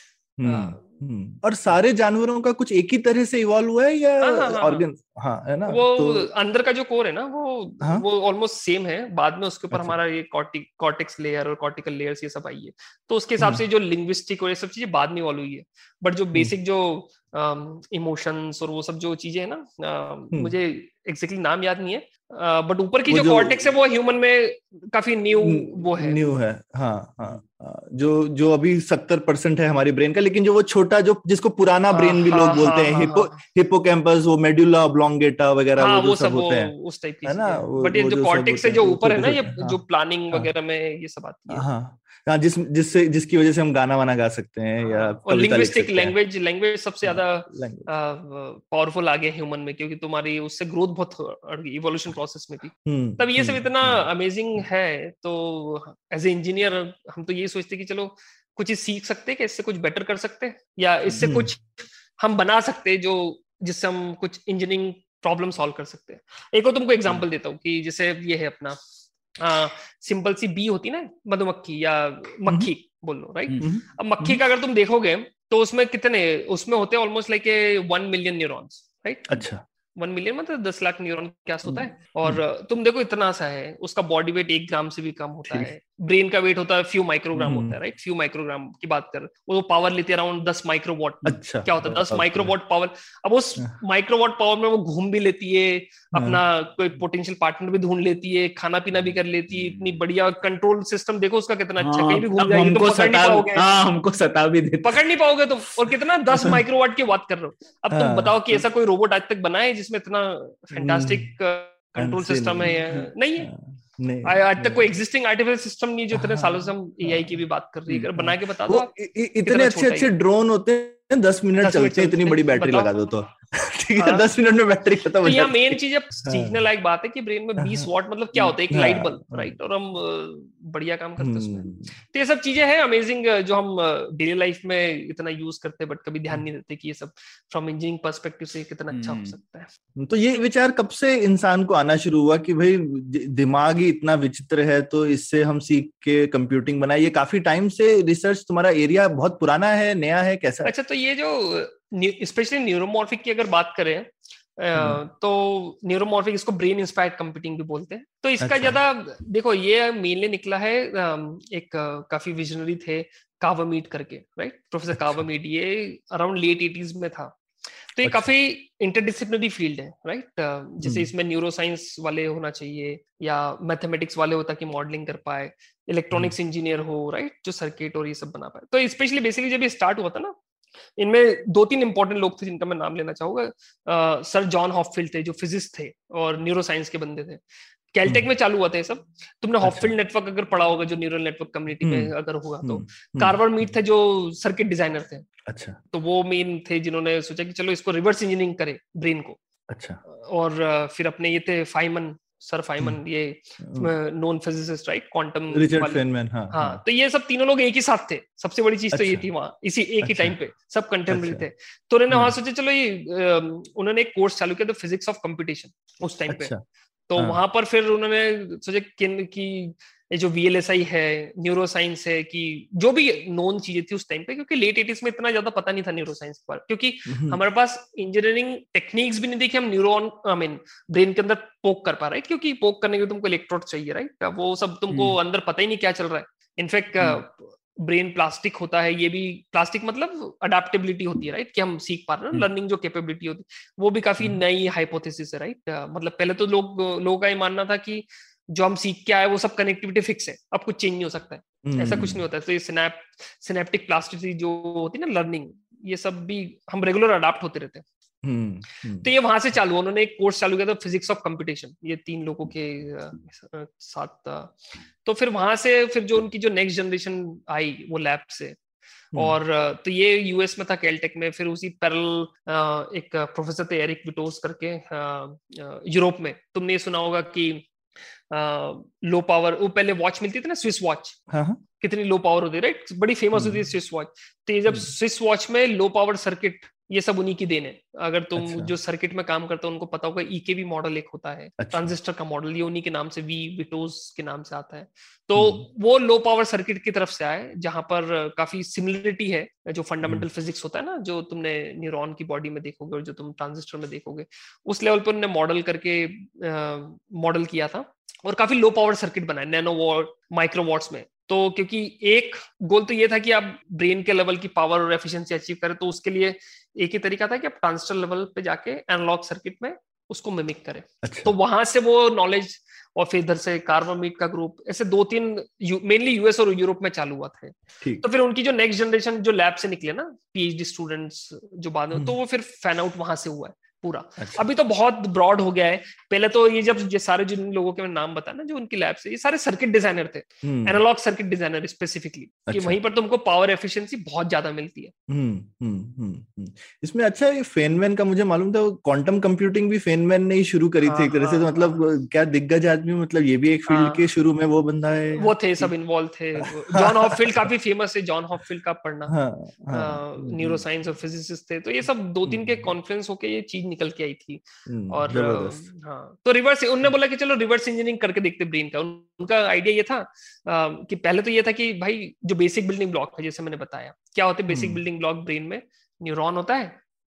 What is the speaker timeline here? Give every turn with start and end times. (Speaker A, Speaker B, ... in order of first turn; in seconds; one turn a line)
Speaker A: 0.4-6.3
Speaker B: 0.4-0.8
Speaker B: 4.2-4.8
Speaker B: 5.7-26.2
Speaker A: 9.7-10.0
Speaker A: 23.1-23.7
Speaker A: 25.4-36.7
Speaker B: 31.9-33.4
Speaker B: 35.8-41.6
Speaker A: 37.2-39.8
Speaker A: 41.5-46.1
Speaker B: 44.8-68.8
Speaker A: 47.0-47.9
Speaker A: 52.9-54.0
Speaker A: 61.2-61.5
Speaker B: 69.4-79.4
Speaker A: 73.6-74.4
Speaker A: 79.3-79.6
Speaker B: 80.0-103.7
Speaker A: 87.4-87.8
Speaker A: 91.2-92.5
Speaker A: 96.1-96.4
Speaker C: 101.8-105.0
Speaker B: 104.8-113.5
Speaker A: 107.9-108.6
Speaker A: 110.7-111.3
Speaker A: 112.0-114.9
Speaker B: 114.2-118.9
Speaker A: 116.1-117.4
Speaker A: 117.9-126.5
Speaker B: 119.4-120.1
Speaker B: 121.6-122.9
Speaker B: 124.0-124.2
Speaker B: 125.2-139.7
Speaker A: 127.6-127.9
Speaker A: 128.7-129.5
Speaker A: 131.2-131.9
Speaker C: 138.9-139.3
Speaker A: 140.0-150.7
Speaker B: 150.6-167.4
Speaker A: 158.4-158.8
Speaker B: 167.9-180.3
Speaker B: 181.0-187.4
Speaker B: 187.9-195.3
Speaker A: 189.6-189.9
Speaker A: 191.8-192.1
Speaker A: 192.6-193.3
Speaker A: 195.4-195.8
Speaker B: 195.9-199.4
Speaker A: 199.7-200.0
Speaker B: 200.1-216.5
Speaker A: 203.6-203.9
Speaker A: 205.5-206.8
Speaker A: 208.9-209.2
Speaker A: 210.0-210.3
Speaker A: 211.1-211.4
Speaker A: 216.3-216.6
Speaker B: 217.1-257.8
Speaker A: 227.1-227.4
Speaker C: 234.9-235.2
Speaker A: 251.6-252.2
Speaker A: 258.2-259.1
Speaker B: 259.0-268.6
Speaker B: 269.1-277.6
Speaker B: 278.3-281.2
Speaker A: 281.3-281.6
Speaker B: 281.8-344.9
Speaker A: 283.3-283.6
Speaker A: 288.4-288.7
Speaker A: 291.6-291.9
Speaker A: 295.4-295.6
Speaker A: 321.0-321.3
Speaker A: 334.2-334.5
Speaker A: 340.4-340.8
Speaker A: 342.5-342.8
Speaker A: 345.1-355.7
Speaker B: 350.8-351.8
Speaker B: 353.7-354.0
Speaker B: 355.1-359.1
Speaker A: 356.7-357.1
Speaker A: 359.1-360.6
Speaker B: 359.7-376.8
Speaker A: 362.3-362.7
Speaker A: 364.7-365.6
Speaker A: 374.5-374.8